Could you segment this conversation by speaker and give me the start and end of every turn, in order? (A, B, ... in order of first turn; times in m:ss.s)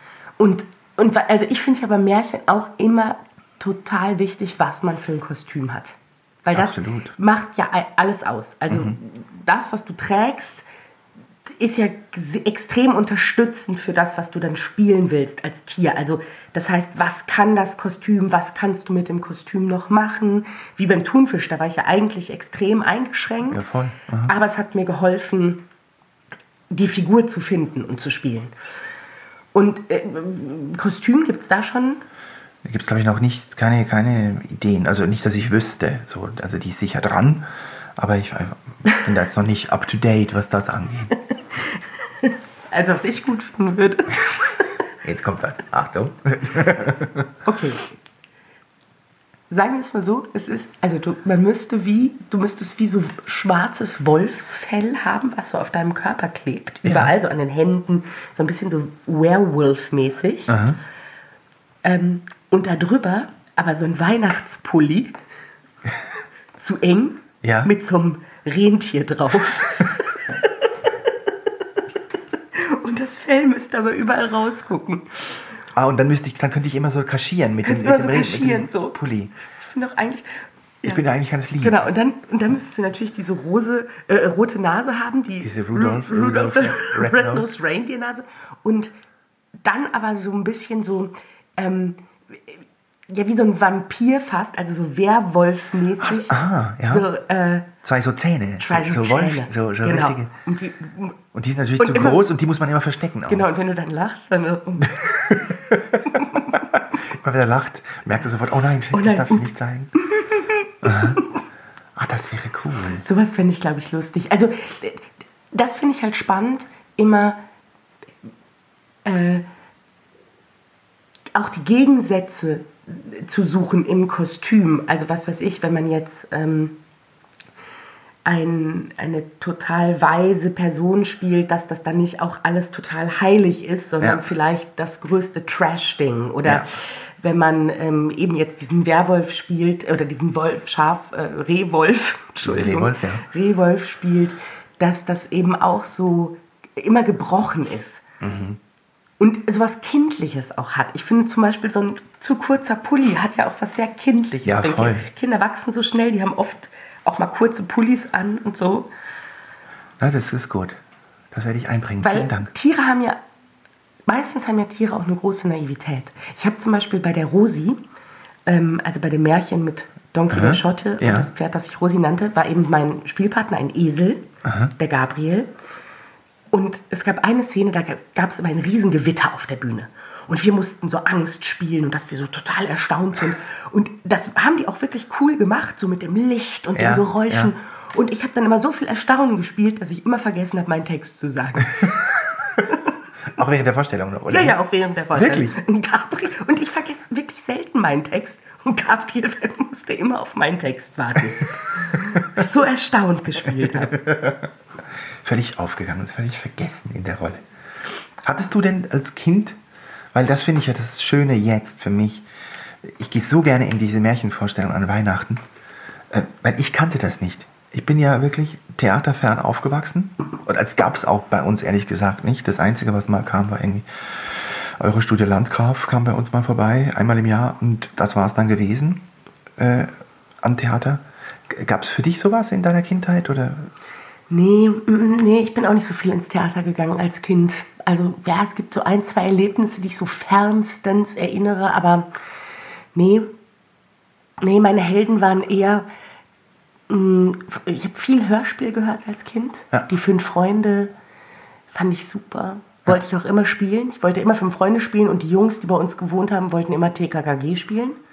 0:00.4-0:10.6 A
0:06.5-0:07.2 B
0:08.7-0:09.0 B
0:11.5-0:23.6 A
0:23.5-0:24.4 B
0:24.2-0:25.6 A
0:26.7-0:28.5 A
0:29.5-0:32.0 A
0:32.6-0:41.2 B
0:42.2-0:44.6 A
0:45.0-0:47.3 B
0:47.5-0:47.8 A
0:49.5-1:00.6 A
0:56.8-0:57.1 B
1:00.5-1:00.8 B
1:01.8-1:05.2 A
1:06.6-1:10.0 A
1:07.4-1:07.7 B
1:12.5-1:15.1 A
1:15.8-1:19.3 B
1:17.6-1:19.0 A
1:19.6-1:21.0 A
1:20.8-1:21.9 B
1:21.6-1:28.9 A
1:25.4-1:27.6 B
1:29.6-1:37.7 A
1:36.0-1:37.1 B
1:37.8-1:40.3 B
1:38.6-1:41.2 A
1:41.3-1:43.5 B
1:41.8-1:42.2 A
1:43.3-1:45.5 A
1:45.3-1:46.0 B
1:46.5-1:49.9 B
1:48.9-1:51.2 A
1:50.8-1:51.2 B
1:52.0-1:53.0 B
1:53.0-1:57.4 A
1:59.0-1:59.4 A
2:01.3-2:06.8 A
2:08.2-2:28.0 A
2:14.0-2:14.3 B
2:16.4-2:16.7 B
2:22.4-2:23.2 B
2:28.2-2:28.6 B
2:29.2-2:38.9 A
2:34.4-2:35.1 B
2:40.0-2:40.8 B
2:41.3-2:42.5 B
2:42.0-2:43.2 A
2:44.1-2:47.8 A
2:48.5-2:54.2 A
2:50.3-2:51.3 B
2:54.4-2:54.7 B
2:54.8-2:55.5 A
2:56.5-3:12.0 A
3:06.8-3:07.5 B
3:13.3-3:14.6 B
3:14.3-3:24.0 A
3:15.1-3:15.5 B
3:24.0-3:24.4 B
3:25.2-3:27.4 B
3:28.2-3:29.6 B
3:30.1-3:32.2 B
3:32.8-3:35.4 B
3:36.1-3:49.0 B
3:49.6-3:49.9 B
3:50.4-3:53.7 B
3:54.3-4:02.1 A
4:02.9-4:03.3 A
4:04.4-4:05.9 A
4:06.9-4:10.9 A
4:11.7-4:18.0 A